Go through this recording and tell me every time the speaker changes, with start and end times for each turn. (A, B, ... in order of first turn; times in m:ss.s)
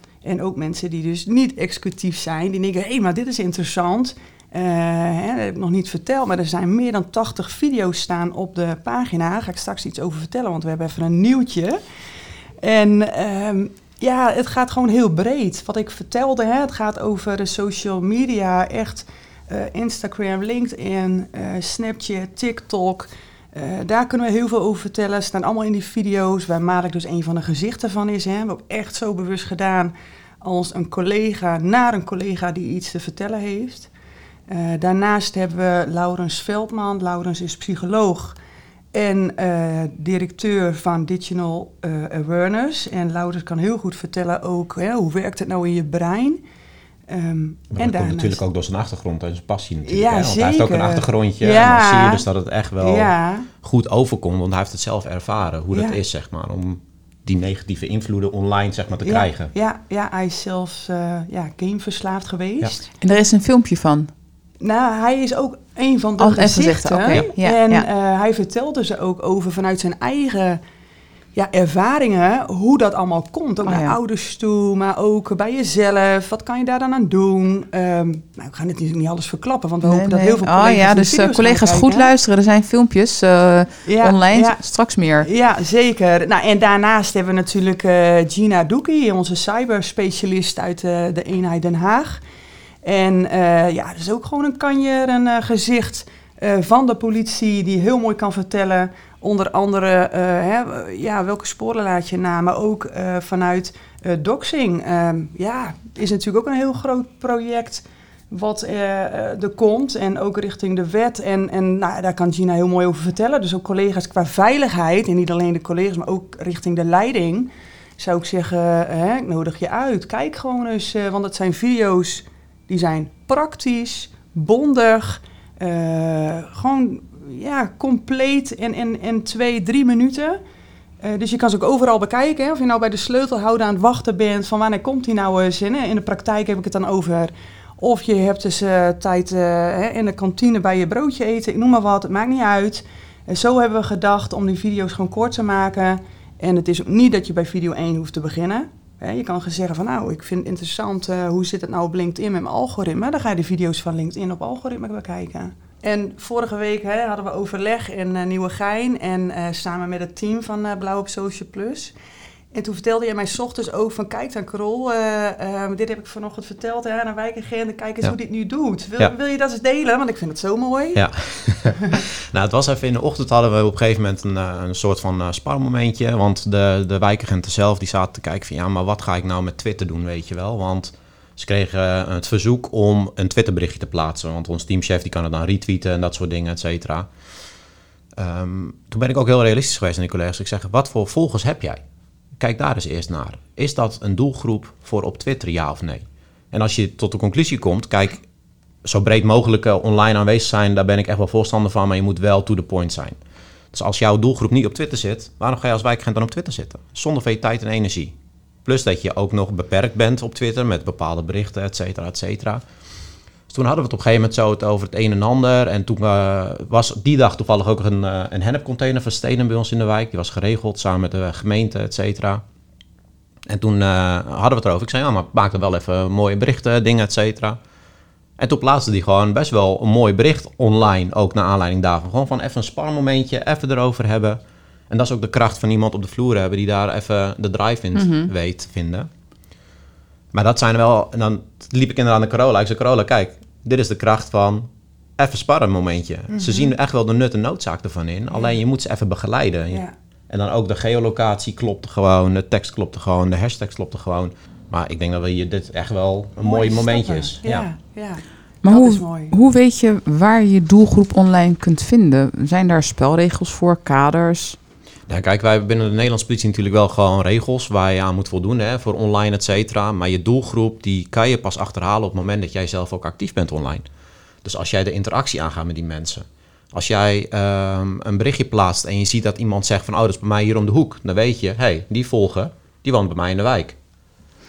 0:00.2-0:11.8 A
0:12.6-0:33.9 A
0:34.5-0:38.4 A
0:38.9-0:46.4 A
0:47.1-0:48.4 A
0:47.7-0:59.5 B
0:49.8-0:52.2 A
0:52.8-0:53.5 A
0:55.7-0:56.0 A
0:59.0-1:02.9 A
1:03.0-1:04.1 C
1:04.6-1:10.6 A
1:06.2-1:07.8 C
1:11.3-1:22.1 A
1:13.6-1:14.0 C
1:19.8-1:25.3 C
1:23.8-1:24.6 A
1:25.2-1:32.2 A
1:32.8-2:10.4 A
2:11.0-2:41.9 A
2:42.5-2:51.1 A
2:50.9-3:07.1 B
2:51.7-2:52.0 A
3:08.2-3:11.8 B
3:12.4-3:18.2 B
3:18.8-3:23.2 B
3:23.7-3:32.6 B
3:33.5-3:42.4 B
3:43.5-3:47.6 B
3:48.4-3:59.1 B
3:58.0-3:58.3 C
4:00.3-4:17.7 B
4:06.3-4:06.7 A
4:16.4-4:19.3 A
4:18.6-4:24.6 C
4:25.1-4:33.8 B
4:34.4-4:43.8 B